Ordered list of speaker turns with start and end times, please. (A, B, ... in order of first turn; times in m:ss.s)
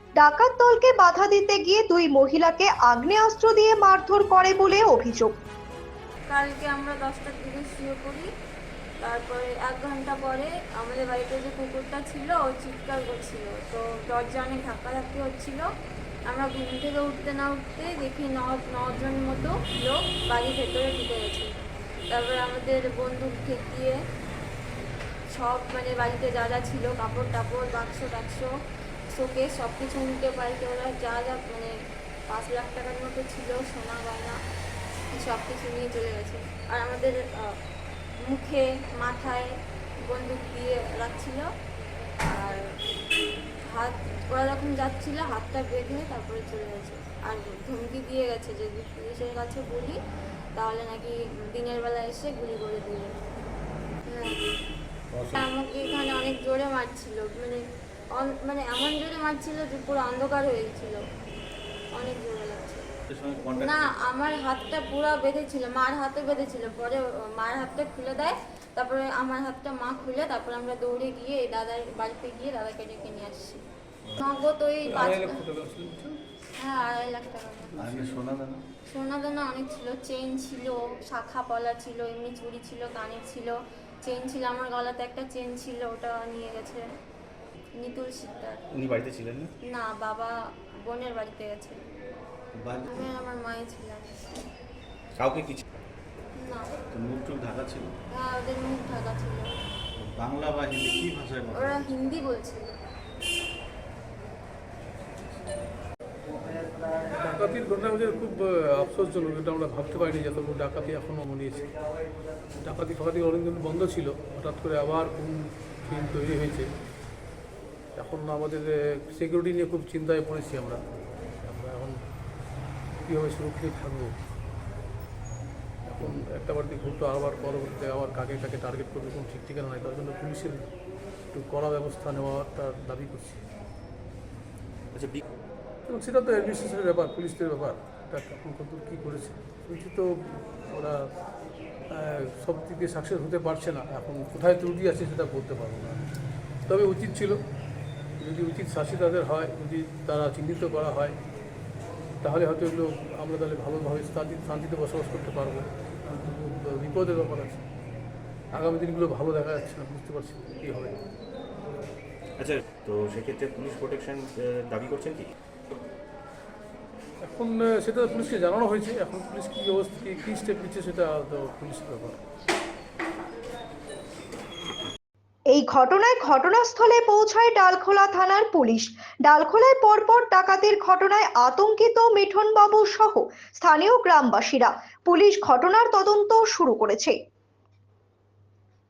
0:00.2-0:05.4 A
0:06.3-0:08.3 B
0:09.0-0:15.7 B
0:16.3-0:24.0 B
0:25.3-0:28.5 B
0:29.1-0:31.8 B
0:32.3-0:34.4 B
0:35.1-0:37.6 B
0:38.2-0:41.5 B
0:42.2-0:42.8 B
0:43.6-0:50.0 B
0:50.6-0:53.2 B
0:54.1-0:54.4 B
0:55.1-0:55.5 C
0:55.3-1:01.0 B
1:01.9-1:02.8 B
1:03.1-1:04.0 C
1:03.6-1:13.6 B
1:14.2-1:15.4 B
1:14.9-1:16.2 D
1:16.6-1:17.8 B
1:17.8-1:18.2 D
1:17.8-1:18.6 C
1:18.9-1:26.9 B
1:27.8-1:28.6 B
1:28.8-1:29.3 C
1:29.6-1:31.8 B
1:32.6-1:32.9 C
1:32.9-1:34.5 B
1:35.2-1:35.6 E
1:36.4-1:36.7 B
1:36.9-1:38.0 C
1:38.1-1:39.6 B
1:40.0-1:42.0 C
1:41.6-1:42.7 B
1:47.2-1:51.7 D
1:52.6-1:56.7 D
1:58.0-2:00.8 D
2:01.4-2:02.0 D
2:03.0-2:04.2 D
2:05.9-2:10.6 D
2:11.3-2:13.4 D
2:15.9-2:21.1 D
2:21.9-2:26.1 D
2:26.7-2:27.4 D
2:28.2-2:31.2 D
2:32.2-2:37.6 D
2:38.5-2:41.0 D
2:42.4-2:45.3 E
2:47.2-2:52.2 D
2:55.5-3:07.2 A